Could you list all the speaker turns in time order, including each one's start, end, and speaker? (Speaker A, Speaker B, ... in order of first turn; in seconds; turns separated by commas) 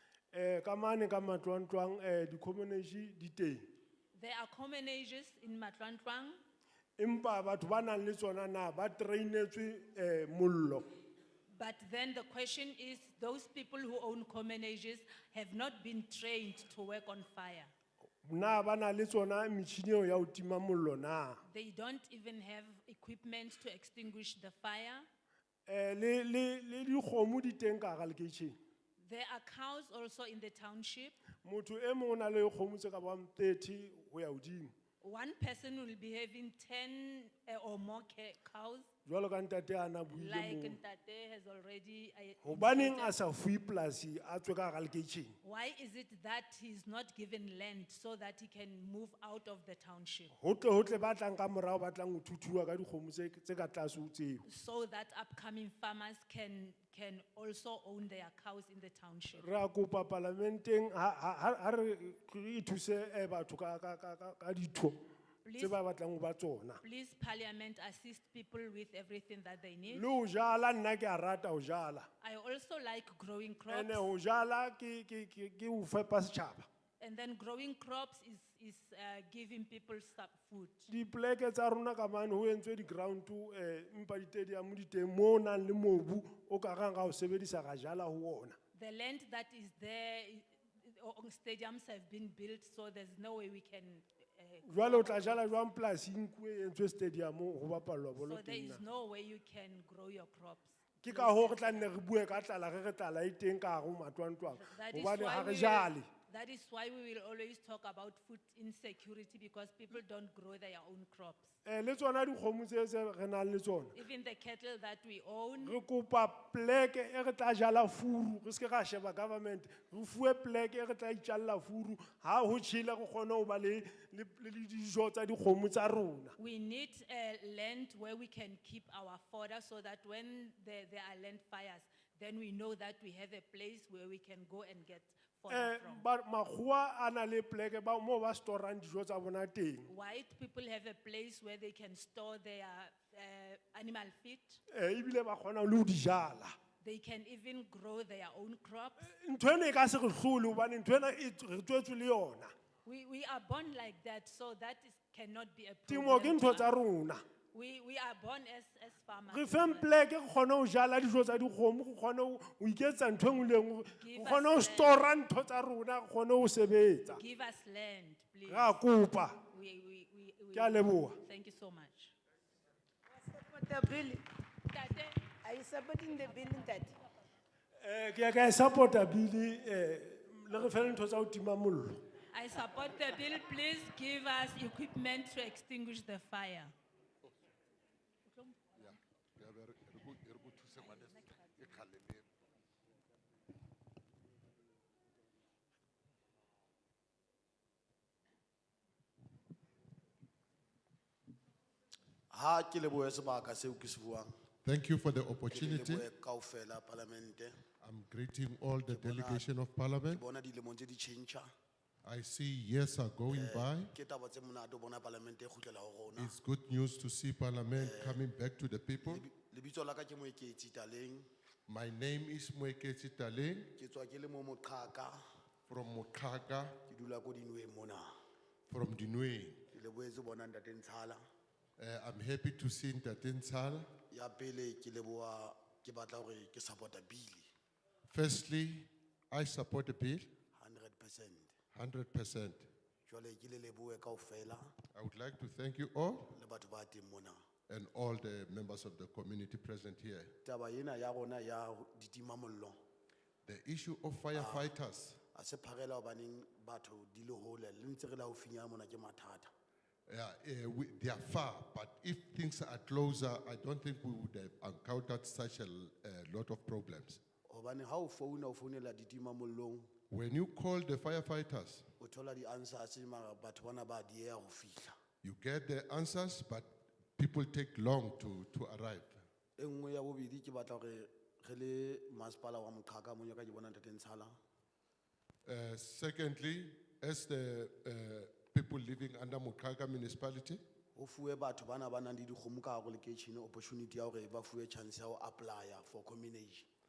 Speaker A: 0.3-3.6, Speaker B: 4.1-6.4, Speaker A: 7.0-10.9, Speaker B: 11.5-17.7, Speaker A: 18.2-21.4, Speaker B: 21.4-25.1, Speaker A: 25.7-28.6, Speaker B: 29.0-31.2, Speaker A: 31.4-34.7, Speaker B: 35.0-38.9, Speaker A: 39.1-40.8, Speaker B: 40.2-43.2, Speaker A: 42.4-45.4, Speaker B: 45.4-50.3, Speaker A: 50.3-54.4, Speaker B: 54.5-59.4, Speaker A: 59.4-65.0, Speaker B: 65.4-65.8, Speaker A: 65.6-66.8, Speaker B: 66.8-70.1, Speaker A: 69.9-72.1, Speaker B: 72.2-74.1, Speaker A: 73.7-76.7, Speaker B: 77.0-80.9, Speaker A: 80.9-88.6, Speaker B: 88.7-95.5, Speaker A: 94.7-98.8, Speaker B: 98.2-101.9, Speaker A: 101.0-106.1, Speaker B: 104.5-111.5, Speaker A: 111.7-114.0, Speaker B: 114.0-115.8, Speaker A: 115.6-126.4, Speaker B: 126.4-136.0, Speaker A: 135.5-139.9, Speaker B: 139.9-144.6, Speaker A: 144.7-146.6, Speaker B: 146.8-149.1, Speaker A: 149.0-152.5, Speaker B: 152.8-156.8, Speaker A: 155.9-157.2, Speaker B: 157.5-159.9, Speaker A: 159.3-167.2, Speaker B: 164.0-165.0, Speaker B: 167.1-168.8, Speaker A: 168.5-169.4, Speaker B: 169.5-172.2, Speaker A: 170.5-171.2, Speaker C: 173.2-174.2, Speaker B: 174.7-175.2, Speaker C: 175.4-176.9, Speaker A: 177.8-182.0, Speaker B: 182.3-186.7, Speaker B: 188.3-188.8, Speaker D: 188.8-192.3, Speaker B: 190.8-191.8, Speaker E: 202.3-204.3, Speaker D: 204.7-206.1, Speaker E: 205.5-207.6, Speaker D: 207.8-210.2, Speaker E: 208.9-209.5, Speaker E: 210.1-211.5, Speaker D: 212.0-213.9, Speaker E: 213.3-216.3, Speaker D: 216.2-219.3, Speaker E: 217.8-218.2, Speaker E: 219.0-221.3, Speaker D: 221.7-223.7, Speaker E: 223.8-225.2, Speaker D: 225.7-226.8, Speaker E: 226.9-228.1, Speaker D: 228.7-229.7, Speaker E: 229.7-231.2, Speaker D: 231.8-233.9, Speaker E: 234.1-237.5, Speaker D: 238.1-240.3, Speaker E: 240.5-241.6, Speaker D: 241.7-242.7, Speaker E: 243.1-244.8, Speaker D: 244.9-246.3, Speaker E: 246.3-247.4, Speaker D: 247.7-250.3, Speaker E: 250.4-252.8, Speaker D: 253.4-255.2, Speaker E: 254.3-254.7, Speaker E: 255.3-259.5, Speaker D: 260.1-267.2, Speaker E: 267.4-269.9, Speaker D: 270.1-271.9, Speaker E: 272.0-275.0, Speaker D: 275.2-279.2, Speaker E: 279.6-284.4, Speaker D: 285.5-290.6, Speaker E: 290.9-296.7